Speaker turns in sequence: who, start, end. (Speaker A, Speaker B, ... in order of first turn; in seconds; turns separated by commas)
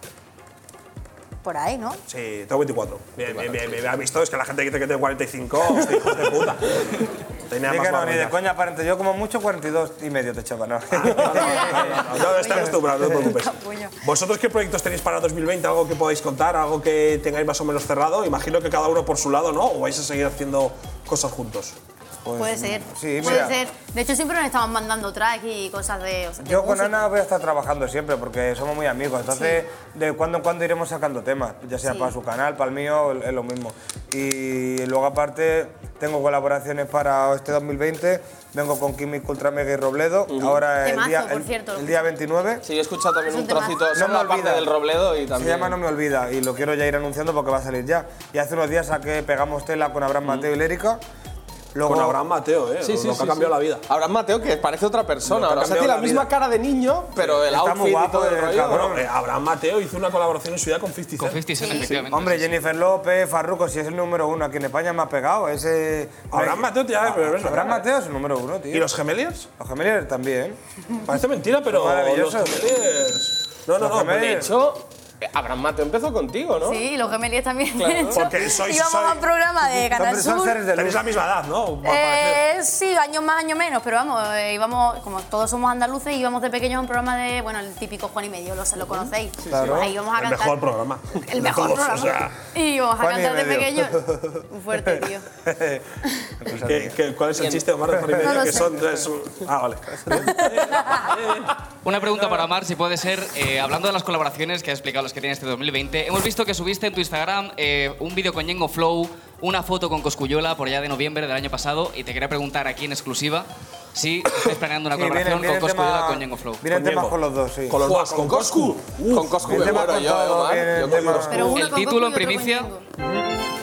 Speaker A: 1.4-2.0, Speaker B: 2.1-8.3, Speaker C: 3.2-3.9, Speaker D: 7.7-13.2, Speaker B: 10.9-21.8, Speaker A: 11.4-14.0, Speaker D: 22.2-23.6, Speaker A: 22.4-27.0, Speaker D: 26.4-42.6, Speaker A: 29.3-29.6, Speaker A: 31.9-32.1, Speaker C: 40.3-40.6, Speaker A: 40.8-42.1, Speaker C: 42.6-45.8, Speaker A: 43.3-43.9, Speaker D: 43.9-44.7, Speaker D: 45.4-51.0, Speaker D: 51.7-52.2, Speaker B: 51.8-53.8, Speaker C: 52.8-58.9, Speaker D: 55.5-56.2, Speaker D: 57.3-59.0, Speaker B: 58.7-61.5, Speaker E: 61.2-62.6, Speaker A: 61.6-62.0, Speaker D: 62.1-68.9, Speaker B: 66.3-67.8, Speaker B: 68.7-69.5, Speaker D: 69.6-70.6, Speaker B: 71.1-74.5, Speaker D: 71.7-72.6, Speaker D: 73.8-74.5, Speaker C: 74.1-76.8, Speaker A: 76.6-80.7, Speaker C: 77.8-78.3, Speaker B: 78.1-79.2, Speaker D: 79.9-81.0, Speaker B: 80.7-82.4, Speaker A: 81.8-95.2, Speaker D: 89.5-89.9, Speaker B: 89.7-92.3, Speaker D: 93.0-95.0, Speaker D: 96.4-97.0, Speaker B: 96.6-102.5, Speaker C: 97.4-97.6, Speaker D: 98.0-98.3, Speaker A: 98.2-98.8, Speaker E: 101.8-116.6, Speaker D: 114.9-117.8, Speaker B: 116.7-117.1, Speaker B: 117.7-120.0, Speaker C: 117.8-121.3, Speaker D: 119.4-121.5, Speaker B: 120.9-121.5, Speaker A: 121.3-122.8, Speaker E: 121.4-122.7